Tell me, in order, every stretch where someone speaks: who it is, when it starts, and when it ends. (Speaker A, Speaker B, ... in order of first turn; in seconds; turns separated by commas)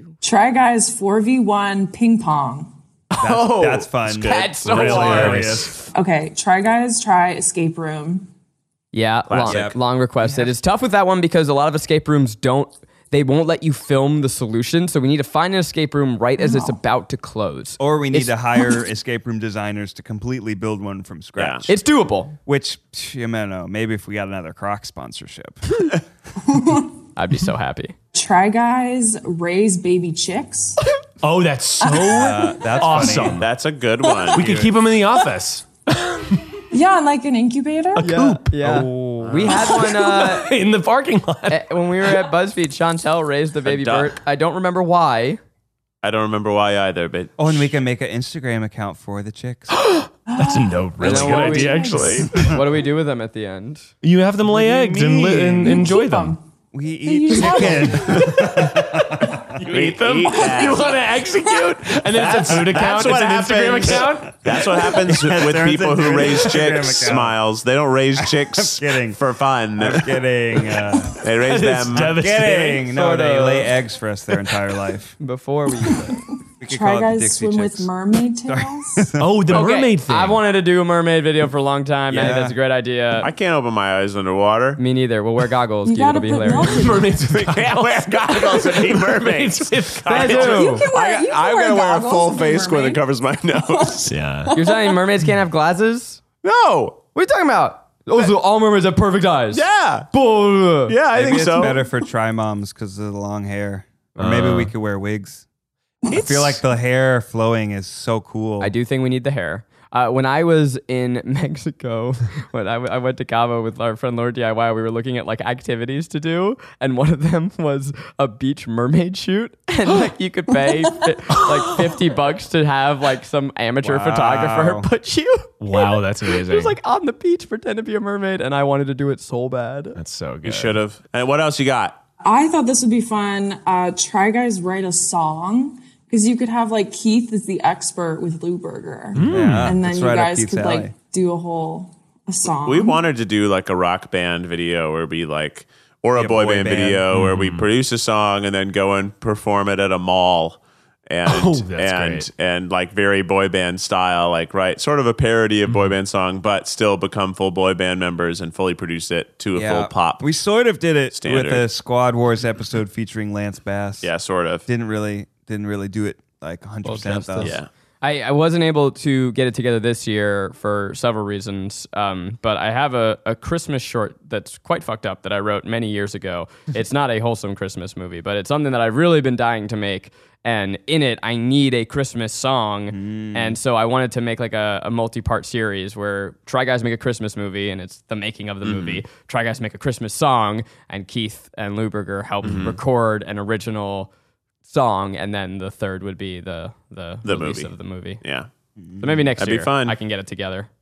Speaker A: 0.2-2.7, Speaker B: 3.1-5.5, Speaker C: 3.2-5.7, Speaker D: 4.1-5.5, Speaker E: 4.9-5.7, Speaker A: 5.9-8.3, Speaker B: 8.9-18.4, Speaker D: 9.3-9.7, Speaker C: 9.5-10.5, Speaker A: 16.4-16.8, Speaker C: 17.8-21.8, Speaker D: 21.4-21.7, Speaker B: 21.7-22.4, Speaker C: 22.5-26.0, Speaker A: 26.5-27.0, Speaker B: 27.2-27.9, Speaker A: 28.1-30.8, Speaker E: 31.2-33.5, Speaker A: 31.8-32.4, Speaker C: 32.0-33.5, Speaker D: 33.4-34.5, Speaker E: 34.3-36.6, Speaker C: 34.3-34.7, Speaker A: 36.7-38.1, Speaker E: 38.0-38.5, Speaker B: 38.0-40.5, Speaker C: 38.6-39.7, Speaker D: 39.2-39.8, Speaker E: 39.5-42.3, Speaker B: 41.5-45.4, Speaker D: 43.6-44.2, Speaker D: 46.0-47.7, Speaker C: 47.4-49.8, Speaker E: 49.7-52.6, Speaker A: 50.3-52.3, Speaker B: 51.0-53.9, Speaker C: 52.2-52.6, Speaker E: 54.0-56.4, Speaker C: 54.5-56.0, Speaker A: 55.6-56.4, Speaker C: 56.7-59.6, Speaker A: 57.0-58.6, Speaker E: 57.5-65.4, Speaker D: 59.7-61.0, Speaker D: 62.1-70.3, Speaker C: 65.0-67.4, Speaker C: 68.2-69.2, Speaker C: 69.8-71.2, Speaker D: 71.2-72.2, Speaker E: 71.3-73.2, Speaker C: 72.0-75.1, Speaker B: 72.9-73.7, Speaker B: 75.2-76.2, Speaker A: 75.9-79.1, Speaker C: 76.6-77.9, Speaker C: 78.5-79.3, Speaker E: 79.2-80.4, Speaker B: 79.5-83.3, Speaker C: 82.1-82.5, Speaker D: 83.2-84.8, Speaker B: 84.8-86.9, Speaker A: 85.8-87.2, Speaker E: 86.5-90.7, Speaker D: 87.1-94.1, Speaker B: 90.1-90.9, Speaker A: 90.2-93.0, Speaker A: 93.5-95.0, Speaker E: 94.1-94.5, Speaker B: 94.5-96.2, Speaker D: 96.4-97.0, Speaker B: 97.2-101.0, Speaker D: 99.5-100.1, Speaker D: 100.9-101.8, Speaker C: 101.1-105.5, Speaker E: 104.2-104.7, Speaker C: 106.1-108.7, Speaker B: 108.6-130.0, Speaker C: 123.8-124.9, Speaker E: 125.6-126.8, Speaker E: 130.0-130.8, Speaker D: 130.4-132.0, Speaker A: 132.2-143.0, Speaker E: 139.1-139.8, Speaker C: 139.2-140.9, Speaker D: 142.7-150.6, Speaker C: 146.2-147.0, Speaker E: 147.1-147.7, Speaker D: 151.1-160.3, Speaker E: 151.3-152.3, Speaker E: 155.7-155.9, Speaker C: 159.6-164.1, Speaker D: 161.1-161.7, Speaker D: 164.0-164.7, Speaker C: 164.7-167.6, Speaker B: 166.8-194.1, Speaker D: 167.4-167.7, Speaker C: 182.9-183.6, Speaker D: 188.6-189.0, Speaker D: 192.4-192.8, Speaker B: 194.7-198.2, Speaker D: 197.2-198.5, Speaker C: 198.8-199.2, Speaker B: 199.0-200.7, Speaker D: 199.4-200.0